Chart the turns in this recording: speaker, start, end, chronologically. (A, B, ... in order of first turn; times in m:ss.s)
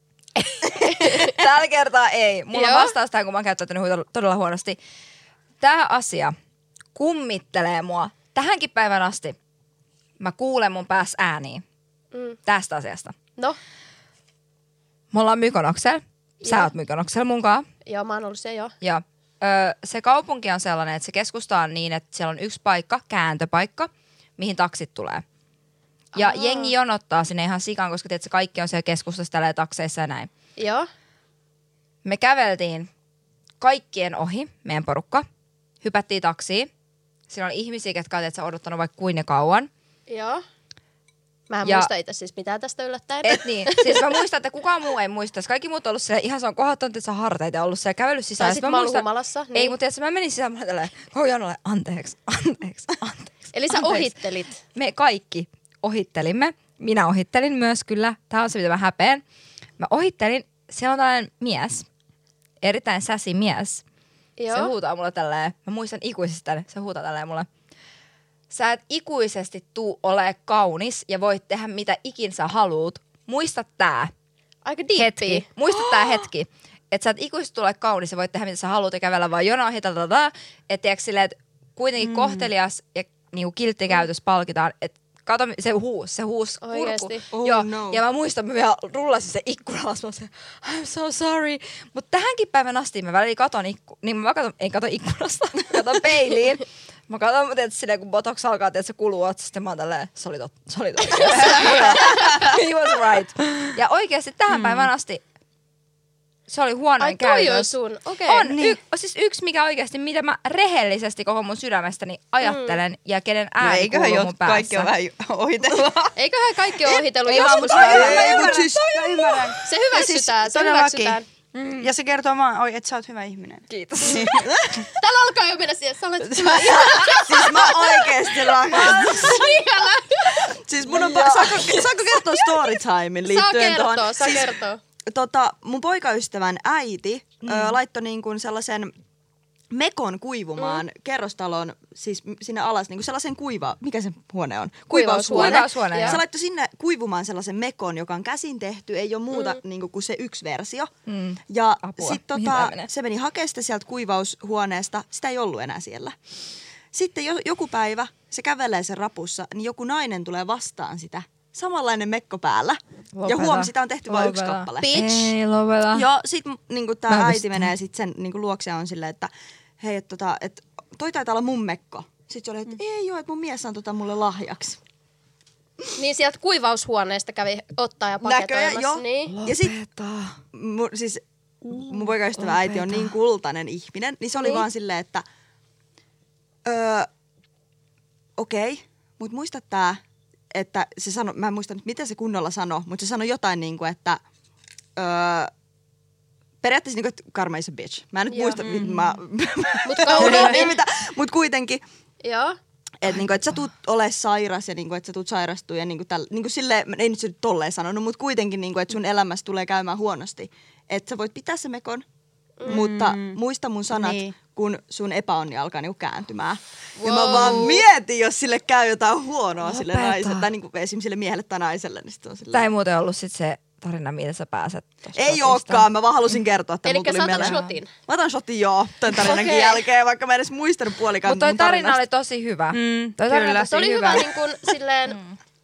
0:00.4-0:04.8 A
0:00.8-0:01.4 B
0:02.5-0:02.9 B
0:05.6-0:06.3 A
0:06.9-0:09.4 A
0:10.2-0:11.6 A
0:12.1-0:12.4 B
0:12.4-0:13.2 A
0:15.1-0:17.6 A
0:16.4-0:16.7 B
0:17.8-0:18.7 B
0:18.8-0:25.2 A
0:26.1-0:26.7 B
0:26.1-0:30.3 A
0:30.6-0:30.9 B
0:32.0-0:32.9 A
0:33.6-0:35.2 A
0:35.8-0:36.7 A
0:37.3-0:39.7 A
0:40.1-0:40.4 B
0:41.5-0:44.1 B
0:41.6-0:41.9 A
0:43.2-0:54.2 A
0:48.4-0:49.7 B
0:53.5-0:54.6 B
0:54.7-0:59.2 A
0:59.8-1:01.8 A
1:02.6-1:03.8 A
1:04.4-1:04.7 B
1:04.5-1:07.5 A
1:08.5-1:14.1 A
1:14.6-1:15.4 B
1:15.0-1:45.2 A
1:22.0-1:22.5 C
1:26.6-1:27.2 B
1:27.3-1:28.0 D
1:41.1-1:42.5 B
1:44.5-1:44.9 C
1:46.5-1:47.7 A
1:47.0-1:48.5 B
1:48.3-1:54.9 A
1:48.5-1:48.8 C
1:52.4-1:52.8 B
1:53.6-1:56.1 C
1:56.2-1:58.3 B
1:56.8-2:01.2 C
1:57.3-1:59.5 A
1:57.7-1:59.0 D
1:59.6-2:01.2 B
2:01.5-2:01.9 A
2:01.8-2:04.4 C
2:03.7-2:04.4 A
2:04.3-2:04.8 D
2:04.9-2:10.5 B
2:06.4-2:06.8 C
2:06.5-2:09.6 D
2:08.7-2:09.4 A
2:10.3-2:14.5 D
2:10.9-2:11.9 A
2:13.3-2:14.8 B
2:15.1-2:18.9 D
2:17.4-2:17.8 A
2:19.7-2:30.9 D
2:20.6-2:20.8 B
2:24.9-2:26.2 B
2:25.3-2:26.2 A
2:29.3-2:29.6 B
2:31.1-2:32.9 A
2:31.5-2:36.1 D
2:36.9-2:45.1 D
2:43.1-2:46.1 A
2:44.8-2:45.3 B
2:45.9-2:54.8 D
2:47.1-2:47.7 A
2:55.9-2:59.3 B
2:58.2-2:59.8 D
2:59.3-3:00.4 A
3:00.5-3:05.2 D
3:01.8-3:03.1 A
3:04.4-3:04.6 B
3:06.6-3:07.1 D
3:08.4-3:10.0 D
3:10.5-3:14.2 D
3:15.0-3:15.5 D
3:16.6-3:21.8 D
3:18.3-3:18.6 B
3:18.6-3:19.1 C
3:19.8-3:20.7 B
3:20.2-3:20.6 C
3:22.2-3:22.6 B
3:23.0-3:32.0 D
3:32.6-3:42.7 D
3:32.7-3:33.4 C
3:33.9-3:34.3 C
3:37.0-3:37.8 B
3:39.6-3:40.5 A
3:42.5-3:45.9 A
3:45.1-3:52.0 D
3:46.8-3:47.9 B
3:49.2-3:49.8 A
3:51.2-3:54.3 A
3:52.7-3:53.7 C
3:53.7-3:55.2 B
3:55.1-3:55.4 A